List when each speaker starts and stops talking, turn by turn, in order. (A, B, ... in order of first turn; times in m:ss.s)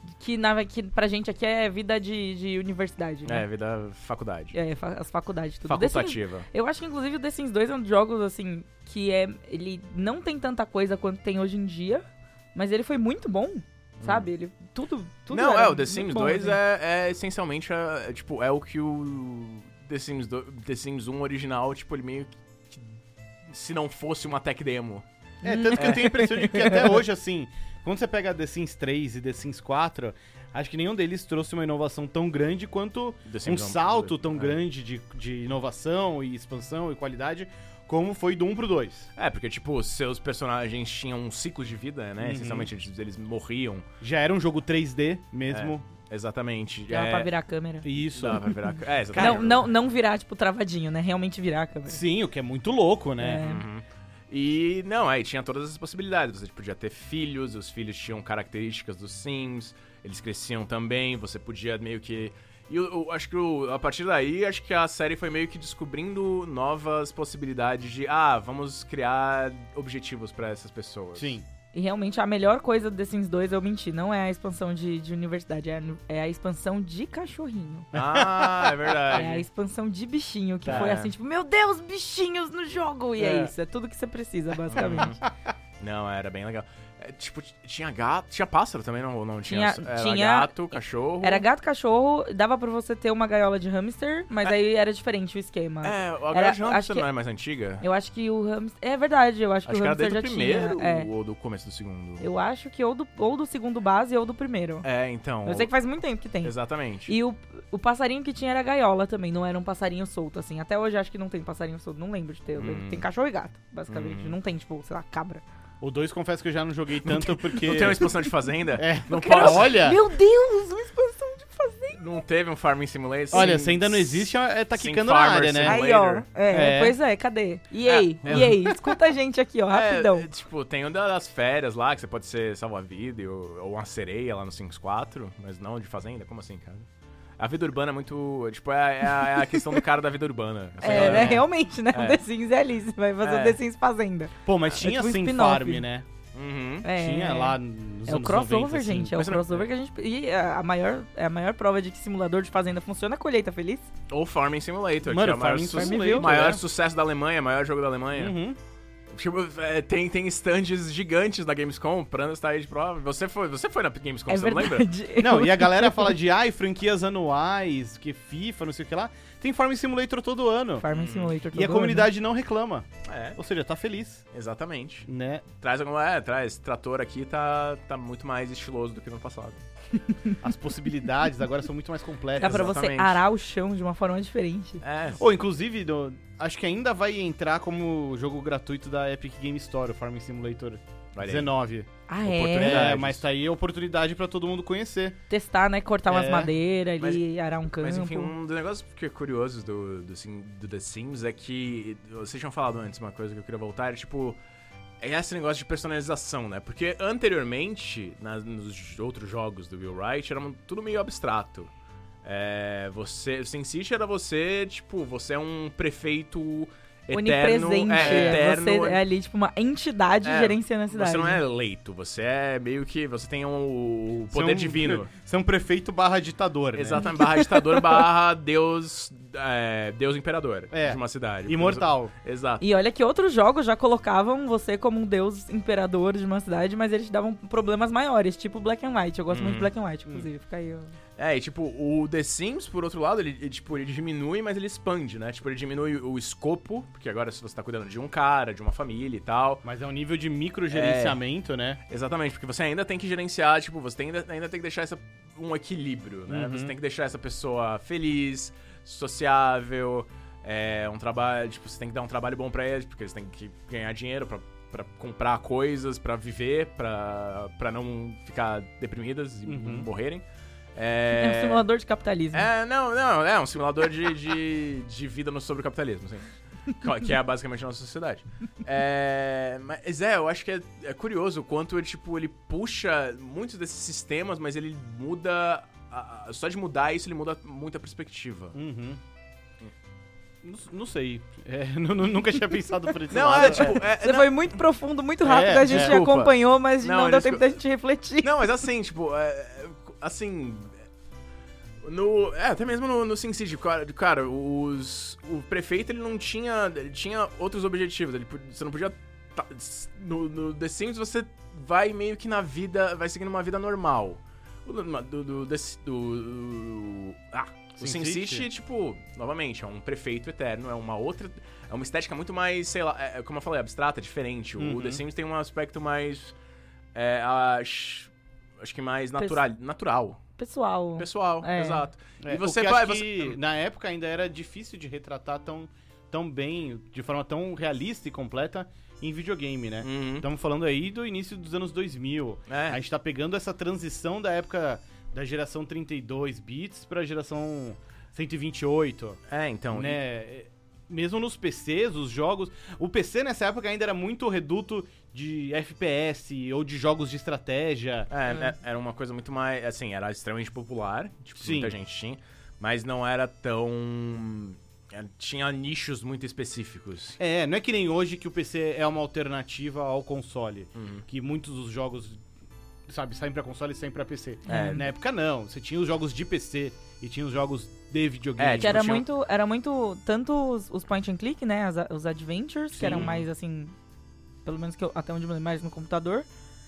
0:00.2-0:03.4 A
0:03.2-0:04.6 B
0:04.5-0:16.6 A
0:05.7-0:06.5 B
0:14.0-0:14.3 B
0:15.3-0:22.9 B
0:23.5-0:25.0 B
0:25.4-0:27.0 A
0:25.4-0:39.1 C
0:25.8-0:26.1 B
0:33.3-0:34.6 B
0:39.2-0:43.8 B
0:42.2-0:42.7 C
0:44.0-0:45.8 C
0:45.5-0:47.3 B
0:46.9-0:47.9 A
0:47.8-0:49.6 C
0:48.0-0:49.6 B
0:49.2-0:52.0 A
0:51.9-0:53.4 C
0:53.2-0:53.6 A
0:53.4-1:11.4 B
1:11.2-1:11.5 C
1:11.7-1:17.9 A
1:17.9-1:19.0 C
1:17.9-1:19.4 B
1:19.1-1:25.1 A
1:20.6-1:20.9 C
1:20.7-1:21.1 B
1:23.2-1:23.5 C
1:24.7-1:25.2 B
1:24.8-1:25.1 C
1:25.8-1:31.5 B
1:29.5-1:30.5 A
1:31.2-1:37.1 A
1:35.8-1:37.8 B
1:37.8-1:41.1 A
1:39.7-1:42.3 B
1:42.2-1:44.8 A
1:44.8-1:45.7 B
1:45.4-1:46.5 A
1:46.4-1:47.1 B
1:47.1-1:55.4 A
1:52.6-1:53.0 B
1:53.9-1:54.4 B
1:55.8-1:58.2 C
1:57.0-2:00.0 B
1:58.8-2:00.0 C
1:59.1-2:02.0 A
2:01.9-2:06.3 B
2:03.3-2:05.8 C
2:05.6-2:10.3 A
2:06.5-2:07.0 C
2:07.8-2:08.6 B
2:08.2-2:08.8 C
2:09.7-2:16.9 B
2:17.4-2:22.2 B
2:19.2-2:19.7 A
2:20.8-2:25.8 A
2:20.8-2:21.4 C
2:23.2-2:23.6 B
2:24.4-2:26.1 C
2:26.3-2:26.9 B
2:26.8-2:33.9 A
2:26.9-2:29.2 C
2:29.2-2:29.6 B
2:34.1-2:38.4 B
2:35.0-2:36.6 C
2:35.7-2:36.3 A
2:38.1-2:38.6 C
2:39.1-2:44.9 B
2:44.3-2:46.2 A
2:45.2-2:50.9 C
2:50.8-2:52.1 A
2:50.9-2:51.4 B
2:51.5-2:54.2 C
2:53.0-2:53.4 B
2:54.3-2:55.1 B
2:55.1-2:55.5 C
2:55.6-2:59.6 B
3:00.0-3:00.4 A
3:00.4-3:02.7 C
3:02.4-3:03.2 B
3:02.4-3:04.8 A
3:04.8-3:05.2 B
3:05.2-3:11.9 C
3:11.2-3:11.5 B
3:12.1-3:12.9 A
3:12.2-3:13.2 B
3:12.6-3:15.2 C
3:15.3-3:18.3 A
3:16.1-3:16.5 C
3:17.0-3:24.4 B
3:25.0-3:31.7 B
3:32.2-3:39.0 B
3:37.1-3:41.4 A
3:38.0-3:38.4 C
3:40.2-3:45.1 B
3:44.3-3:47.1 C
3:46.7-3:52.6 B
3:47.0-3:48.0 A
3:50.7-3:52.1 C
3:52.6-4:00.9 A
3:59.3-3:59.7 B
4:01.2-4:09.6 B
4:09.6-4:11.8 C
4:10.7-4:11.2 B
4:11.9-4:30.2 B
4:16.3-4:16.7 C
4:29.5-4:29.9 C
4:30.8-4:31.6 B
4:31.1-4:32.5 A
4:32.3-4:48.6 B
4:48.5-4:49.0 C
4:50.4-4:53.8 C
4:53.1-4:54.3 B
4:53.3-4:58.6 A
4:55.2-4:56.0 C
4:55.6-4:57.5 B
4:58.2-5:00.7 B
5:01.8-5:26.4 B
5:17.8-5:18.5 C
5:24.6-5:25.0 C
5:27.0-5:30.2 B
5:30.4-5:31.9 A
5:31.0-5:33.4 B
5:32.2-5:49.2 C
5:39.8-5:40.3 B
5:42.5-5:42.8 B
5:49.3-5:50.0 B
5:49.7-5:58.4 C
5:58.1-6:07.2 B
6:01.4-6:01.8 C
6:07.2-6:12.2 C
6:10.8-6:11.0 B
6:12.9-6:18.8 C
6:14.5-6:14.8 A
6:14.5-6:14.8 B
6:18.4-6:19.0 B
6:18.6-6:23.7 A
6:22.8-6:23.1 C
6:22.8-6:23.2 B
6:24.4-6:26.3 A